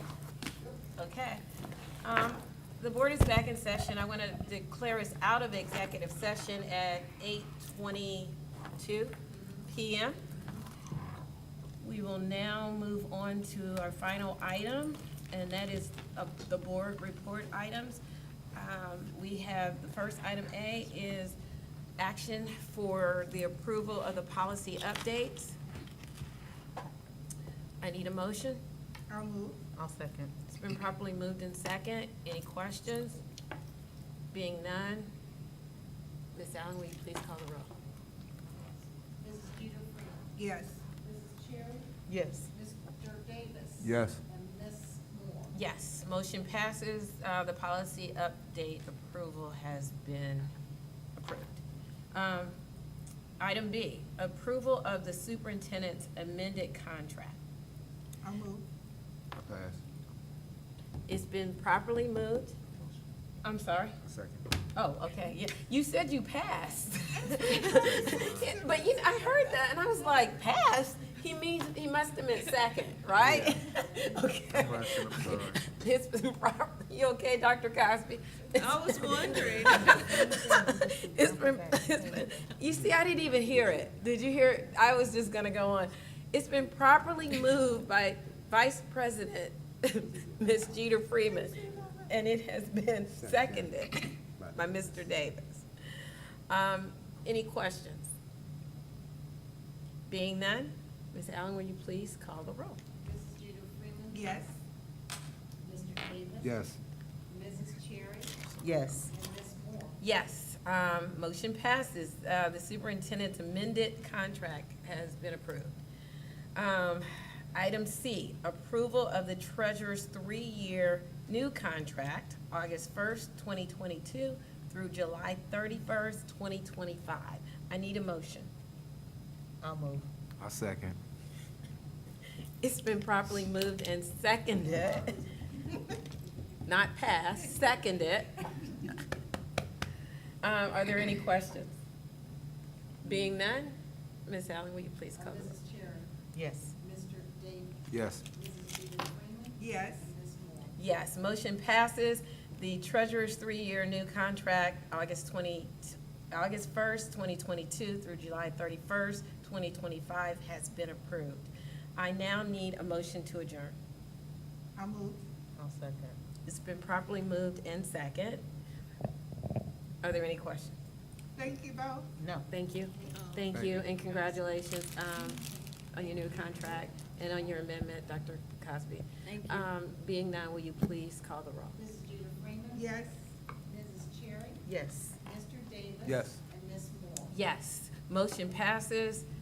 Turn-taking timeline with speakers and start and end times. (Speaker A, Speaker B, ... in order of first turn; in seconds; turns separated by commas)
Speaker A: 1.0-1.4, Speaker A: 2.0-10.2, Speaker A: 11.8-18.0, Speaker A: 18.5-21.4, Speaker A: 22.0-25.6, Speaker A: 27.8-28.6, Speaker B: 29.1-29.5, Speaker C: 29.8-30.3, Speaker A: 30.5-33.2, Speaker A: 34.3-35.1, Speaker A: 36.4-37.7, Speaker D: 39.2-41.9, Speaker B: 40.4-40.8, Speaker C: 42.1-42.5, Speaker D: 42.6-45.5, Speaker E: 43.8-44.2, Speaker A: 45.5-50.5, Speaker A: 51.2-51.6, Speaker A: 52.1-52.5, Speaker A: 53.4-57.4, Speaker B: 58.2-58.6, Speaker E: 59.4-59.8, Speaker A: 61.1-62.5, Speaker A: 63.4-64.0, Speaker E: 64.0-64.5, Speaker A: 64.8-95.7, Speaker E: 67.6-68.5, Speaker B: 67.7-68.5, Speaker E: 73.2-73.6, Speaker E: 74.5-75.6, Speaker B: 78.7-79.7, Speaker D: 79.0-79.5, Speaker C: 79.4-82.5, Speaker E: 93.2-93.8, Speaker E: 94.4-94.9, Speaker A: 96.5-98.1, Speaker A: 100.1-102.8, Speaker D: 103.0-104.5, Speaker B: 104.2-104.5, Speaker D: 105.6-106.5, Speaker E: 106.4-106.8, Speaker D: 107.3-108.4, Speaker C: 108.6-109.1, Speaker D: 109.1-109.9, Speaker A: 110.0-115.8, Speaker A: 116.5-128.5, Speaker C: 129.6-130.1, Speaker E: 130.4-131.0, Speaker A: 132.6-135.2, Speaker A: 136.7-138.5, Speaker A: 140.4-141.7, Speaker A: 143.0-145.6, Speaker D: 145.5-146.1, Speaker C: 146.3-146.7, Speaker D: 146.8-150.6, Speaker E: 147.9-148.2, Speaker B: 149.6-150.1, Speaker A: 150.8-163.8, Speaker B: 164.8-165.2, Speaker C: 165.6-166.2, Speaker A: 166.5-168.4, Speaker A: 170.0-170.8, Speaker B: 171.4-172.1, Speaker C: 172.2-172.5, Speaker A: 172.5-181.8, Speaker E: 173.5-173.9, Speaker D: 181.9-183.1, Speaker B: 182.8-183.1, Speaker D: 183.7-184.6, Speaker C: 184.7-185.2, Speaker D: 185.2-187.2, Speaker E: 186.0-186.4, Speaker A: 187.3-189.3